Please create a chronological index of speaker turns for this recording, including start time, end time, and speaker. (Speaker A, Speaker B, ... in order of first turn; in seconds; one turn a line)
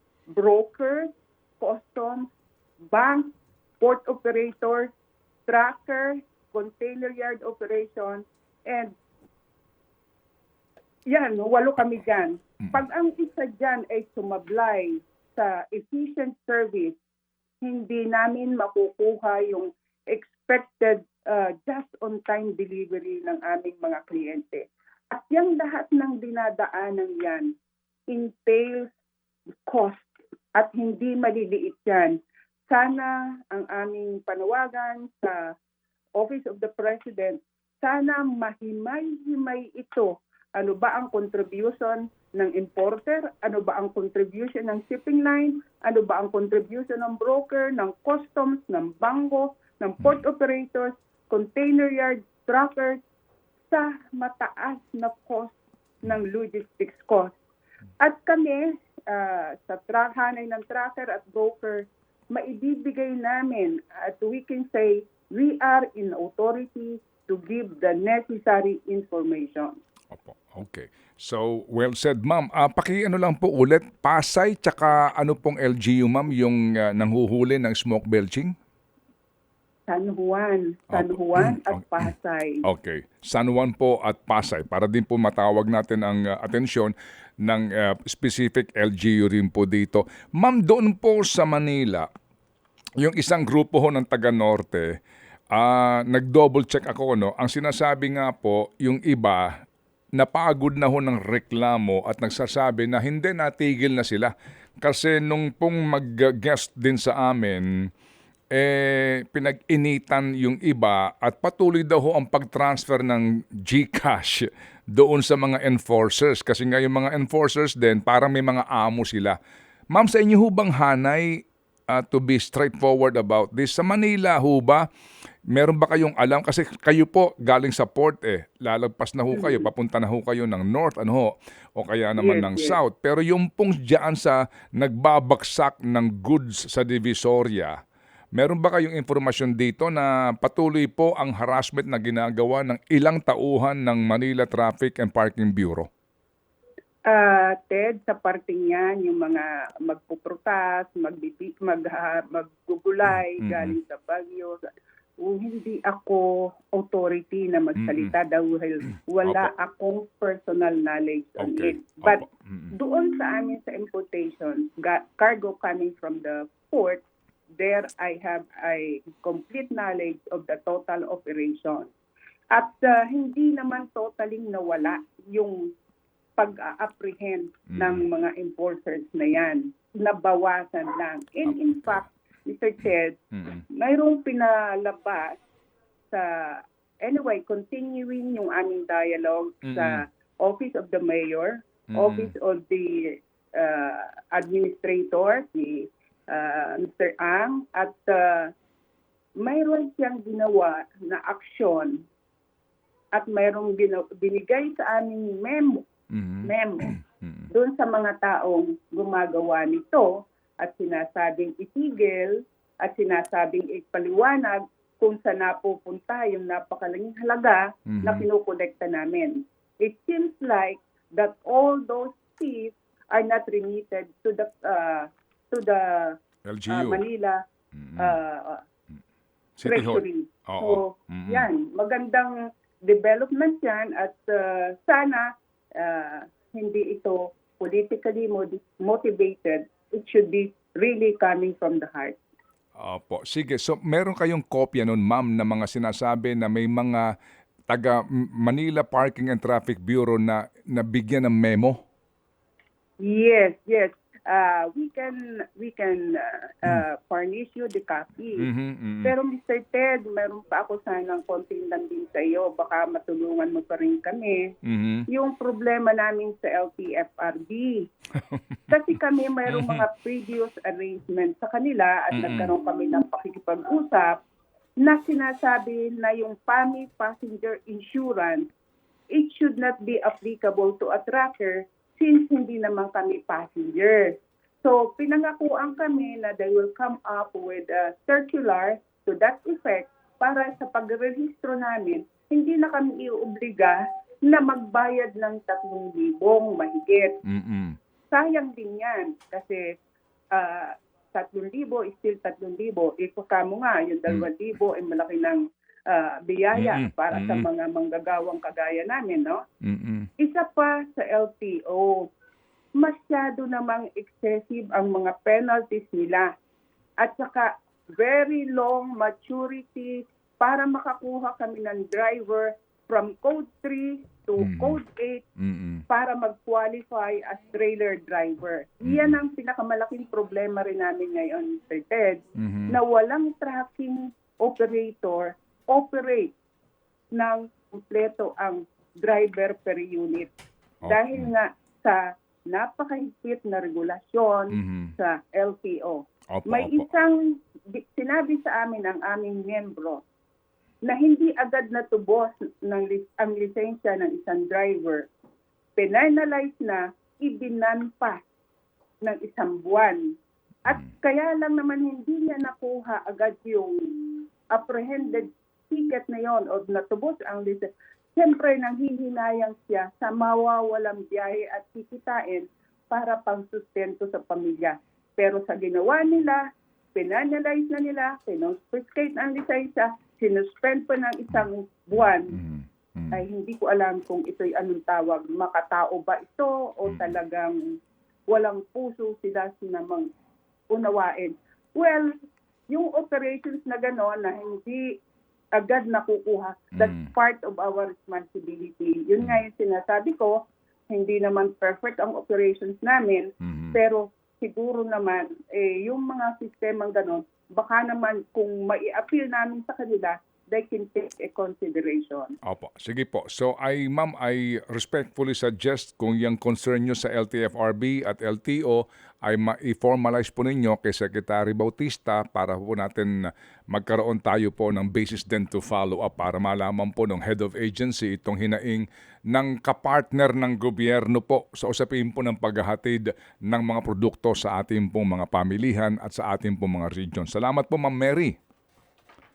Speaker A: 0.3-2.3
Speaker A: 2.9-3.3
Speaker A: 3.8-4.9
Speaker A: 5.5-8.9
Speaker A: 11.1-16.9
Speaker A: 17.6-27.5
Speaker A: 28.1-28.9
Speaker A: 29.7-32.2
Speaker A: 32.7-35.5
Speaker A: 36.2-53.0
Speaker A: 53.7-57.3
Speaker A: 58.0-69.7
Speaker B: 70.1-78.5
Speaker A: 79.9-82.6
Speaker B: 80.9-82.1
Speaker B: 82.6-86.9
Speaker B: 87.4-92.1
Speaker B: 93.0-94.9
Speaker B: 95.5-99.5
Speaker B: 100.2-107.7
Speaker B: 108.5-119.4
Speaker B: 119.9-121.4
Speaker B: 121.9-124.8
Speaker B: 125.5-137.8
Speaker A: 129.3-129.7
Speaker A: 132.2-132.8
Speaker B: 138.3-145.9
Speaker A: 147.1-154.6
Speaker B: 153.4-153.8
Speaker A: 155.2-167.0
Speaker B: 157.8-158.1
Speaker B: 159.2-159.5
Speaker B: 161.4-162.7
Speaker A: 167.6-171.9
Speaker A: 172.5-175.7
Speaker A: 176.4-183.2
Speaker B: 177.7-178.0
Speaker B: 181.5-182.1
Speaker B: 183.3-183.6
Speaker A: 183.7-185.4
Speaker A: 186.1-198.5
Speaker B: 189.7-190.0
Speaker B: 191.9-192.3
Speaker A: 199.4-202.0
Speaker A: 203.1-205.9
Speaker B: 206.1-207.5
Speaker A: 206.4-207.0
Speaker A: 207.5-210.1
Speaker A: 210.6-226.2
Speaker B: 217.9-218.3
Speaker B: 226.5-227.0
Speaker A: 226.7-227.4
Speaker B: 227.8-228.2
Speaker A: 228.0-228.6
Speaker B: 229.6-231.5
Speaker A: 229.7-232.3
Speaker A: 232.8-235.3
Speaker A: 235.8-242.2
Speaker B: 242.8-247.0
Speaker B: 247.7-251.8
Speaker A: 253.0-258.5
Speaker B: 258.4-259.1
Speaker A: 259.0-264.5
Speaker B: 264.6-265.0
Speaker A: 265.1-267.9
Speaker B: 268.3-268.6
Speaker A: 268.7-274.2
Speaker B: 269.5-269.8
Speaker B: 272.1-272.5
Speaker A: 274.8-278.5
Speaker A: 279.1-297.2
Speaker B: 297.3-297.8
Speaker A: 298.1-299.6
Speaker A: 300.3-309.4
Speaker B: 306.5-307.5
Speaker B: 309.6-310.1
Speaker A: 310.2-312.1
Speaker A: 312.8-316.3
Speaker A: 317.0-325.2
Speaker B: 324.4-324.8
Speaker B: 325.4-325.8
Speaker A: 325.9-336.3
Speaker B: 328.8-329.2
Speaker B: 332.4-332.8
Speaker A: 337.1-340.3
Speaker B: 340.9-341.3
Speaker A: 340.9-342.0
Speaker A: 342.5-347.2
Speaker B: 344.5-344.9
Speaker B: 346.3-346.9
Speaker A: 347.7-350.0
Speaker A: 350.9-355.1
Speaker A: 355.8-358.2
Speaker A: 359.0-360.1
Speaker A: 360.7-376.4
Speaker A: 376.9-382.4
Speaker B: 382.3-383.2
Speaker A: 383.1-387.6
Speaker B: 386.9-387.1
Speaker A: 388.3-390.1
Speaker A: 390.7-392.1
Speaker A: 392.7-394.9
Speaker A: 395.6-400.4
Speaker B: 396.8-397.1
Speaker A: 400.9-412.4
Speaker B: 403.4-403.8
Speaker B: 412.4-423.1
Speaker B: 423.7-438.4